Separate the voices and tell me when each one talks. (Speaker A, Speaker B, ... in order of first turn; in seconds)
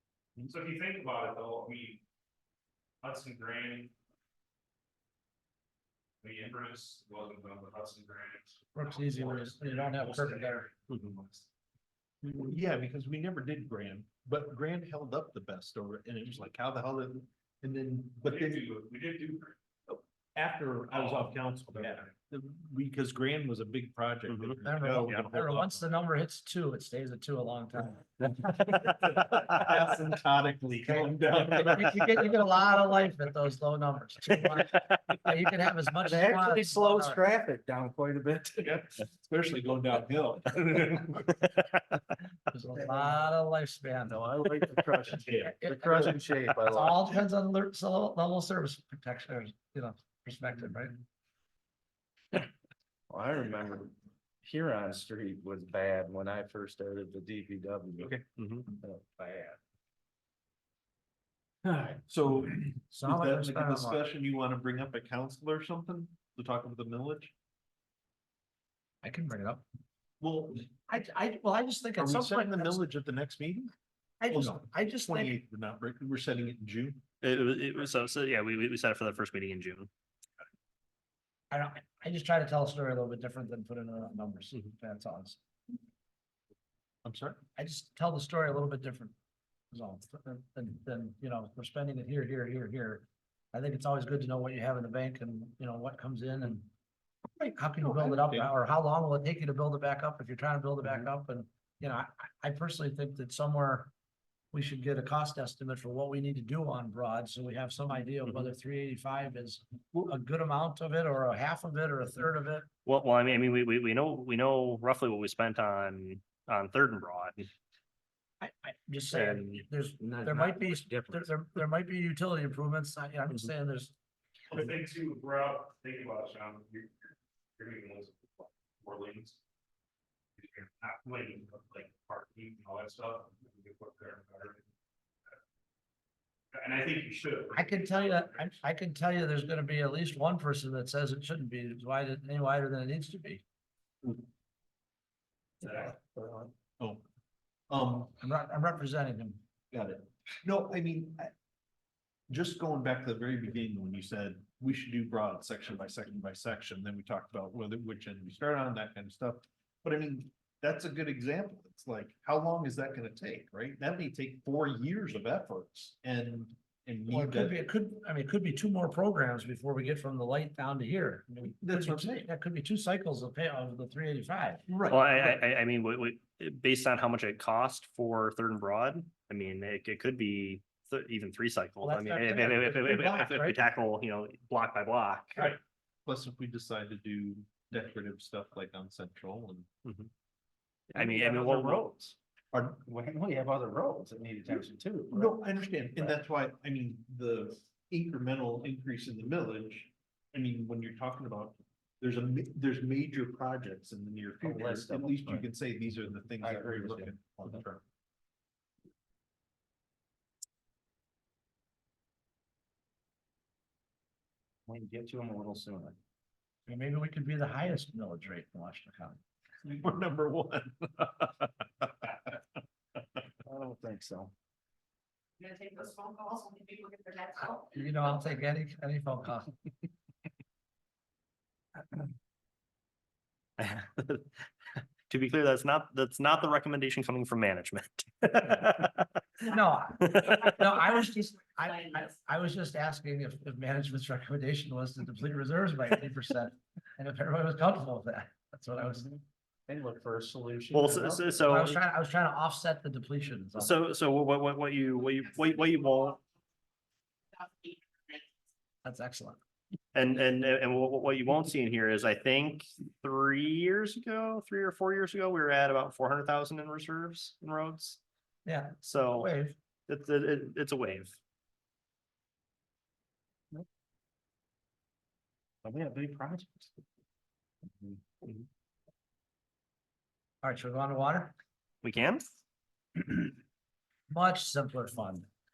Speaker A: 0.5-2.0, 3.0-3.9, 6.2-11.5, 18.2-19.6, 20.9-22.1, 124.5-129.4, 130.4-134.6, 136.5-138.6, 145.6-145.9
Speaker B: 8.7-10.7, 24.6-28.1, 30.8-37.2, 42.5-44.2, 45.4-51.0, 62.9-64.0, 69.0-69.6, 70.9-72.8, 74.2-75.3, 81.5-85.4, 87.5-89.1, 89.7-96.7, 97.5-103.9, 104.5-112.7, 118.4-123.9, 137.5-143.4, 148.2-149.4, 167.1-174.7, 181.8-183.6, 216.7-219.2, 227.4-229.5, 239.4-249.1, 251.5-253.8, 258.8-259.4, 268.4-269.5, 280.4-281.3, 284.1-285.3
Speaker C: 12.2-18.7, 19.9-25.8, 29.0-32.3, 38.6-41.3, 61.6-67.3, 70.2-70.7, 72.0-73.7, 74.3-77.0, 87.0-87.4, 97.3-98.5, 146.1-147.0, 147.7-148.1, 149.7-151.3, 152.3-167.6, 171.6-172.3, 174.7-175.4, 185.4-189.7, 190.9-191.4, 192.5-192.8, 195.1-207.8, 219.6-222.3
Speaker D: 24.3-25.2, 58.4-58.7, 77.2-79.9, 112.8-117.5, 119.1-119.6, 174.9-185.4, 189.8-190.1, 190.9-191.9, 233.6-240.6, 250.7-251.8, 253.6-256.2, 259.9-268.0, 268.8-269.3, 269.9-271.2, 281.8-282.3
Speaker E: 28.4-28.9, 36.0-38.8, 44.1-47.1, 53.1-58.1, 58.8-59.6, 120.0-121.4, 191.0-192.1, 192.8-195.4, 204.4-205.5, 206.3-207.6, 214.7-215.9, 223.4-224.3, 249.0-251.6, 275.6-276.7
Speaker F: 225.4-227.6, 257.4-258.2